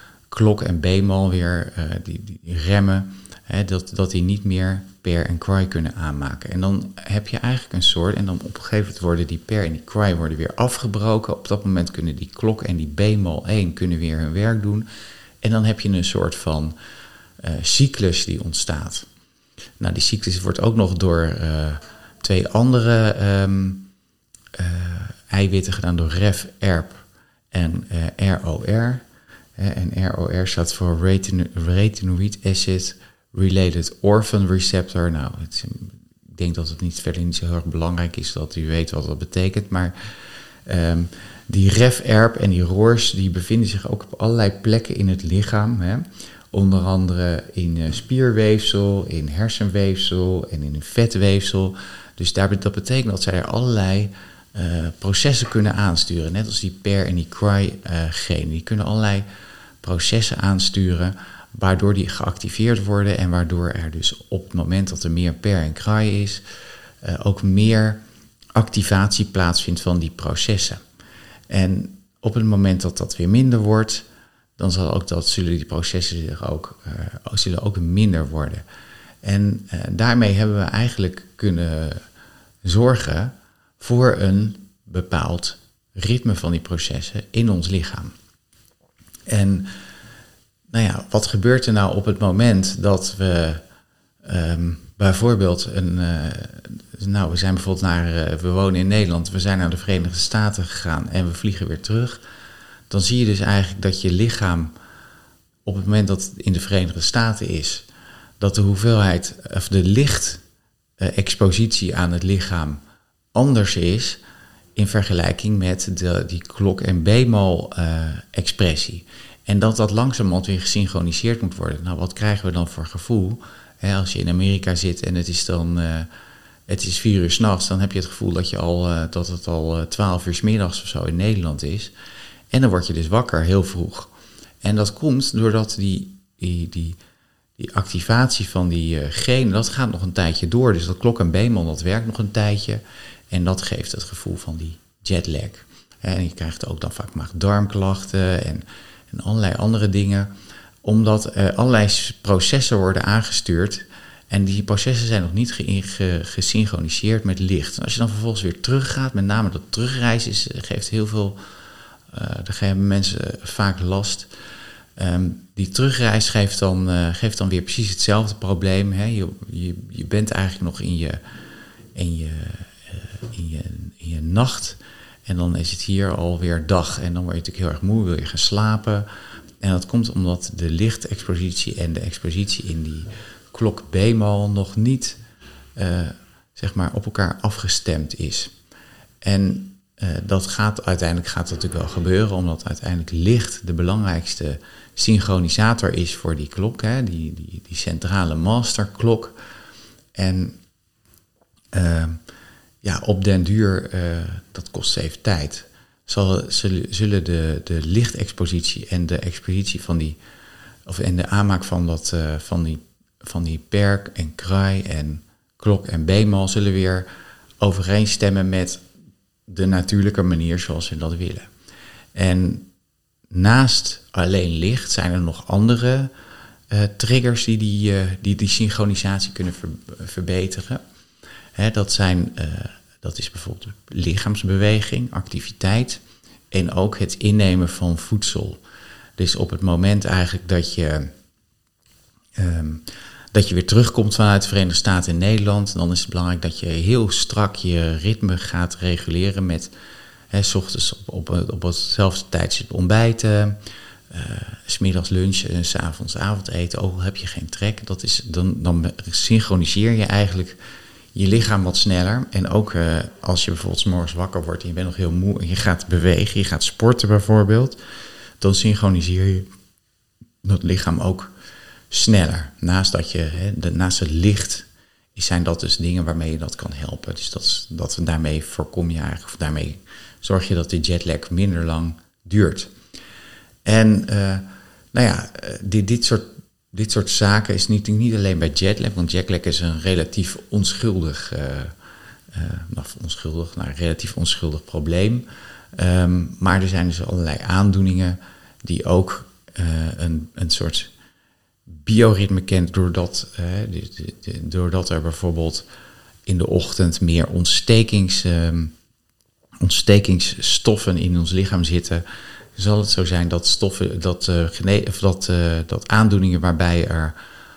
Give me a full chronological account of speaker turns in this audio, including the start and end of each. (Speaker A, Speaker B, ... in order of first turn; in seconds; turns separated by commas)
Speaker A: 0.3-14.9, Speaker A: 15.4-16.7, Speaker A: 17.4-19.1, Speaker A: 19.8-23.9, Speaker A: 24.5-29.0, Speaker A: 29.6-59.2, Speaker A: 59.8-66.4, Speaker A: 67.0-68.0, Speaker A: 68.5-70.8, Speaker A: 71.5-74.0, Speaker A: 74.6-78.6, Speaker A: 79.2-82.0, Speaker A: 82.6-88.1, Speaker A: 89.3-89.7, Speaker A: 90.7-93.6, Speaker A: 94.2-102.2, Speaker A: 102.9-104.7, Speaker A: 105.6-107.8, Speaker A: 108.4-110.4, Speaker A: 111.0-112.8, Speaker A: 113.3-114.2, Speaker A: 114.8-126.1, Speaker A: 126.7-131.9, Speaker A: 132.5-134.1, Speaker A: 134.6-137.0, Speaker A: 137.6-150.3, Speaker A: 150.8-161.4, Speaker A: 162.1-164.3, Speaker A: 165.0-171.2, Speaker A: 171.9-179.1, Speaker A: 179.6-185.2, Speaker A: 185.8-188.5, Speaker A: 189.2-199.3, Speaker A: 200.1-200.6, Speaker A: 201.7-202.2, Speaker A: 202.8-210.2, Speaker A: 210.8-217.1, Speaker A: 217.6-218.8, Speaker A: 219.5-221.5, Speaker A: 222.1-222.7, Speaker A: 223.3-226.1, Speaker A: 226.7-230.8, Speaker A: 231.6-238.6, Speaker A: 239.2-241.1, Speaker A: 242.4-249.7, Speaker A: 250.3-253.6, Speaker A: 254.1-260.6, Speaker A: 261.1-267.8, Speaker A: 268.4-269.5, Speaker A: 270.4-271.3, Speaker A: 271.9-282.7, Speaker A: 283.6-291.7, Speaker A: 292.3-300.9, Speaker A: 301.7-305.6, Speaker A: 306.3-308.7, Speaker A: 309.6-312.0, Speaker A: 312.6-317.1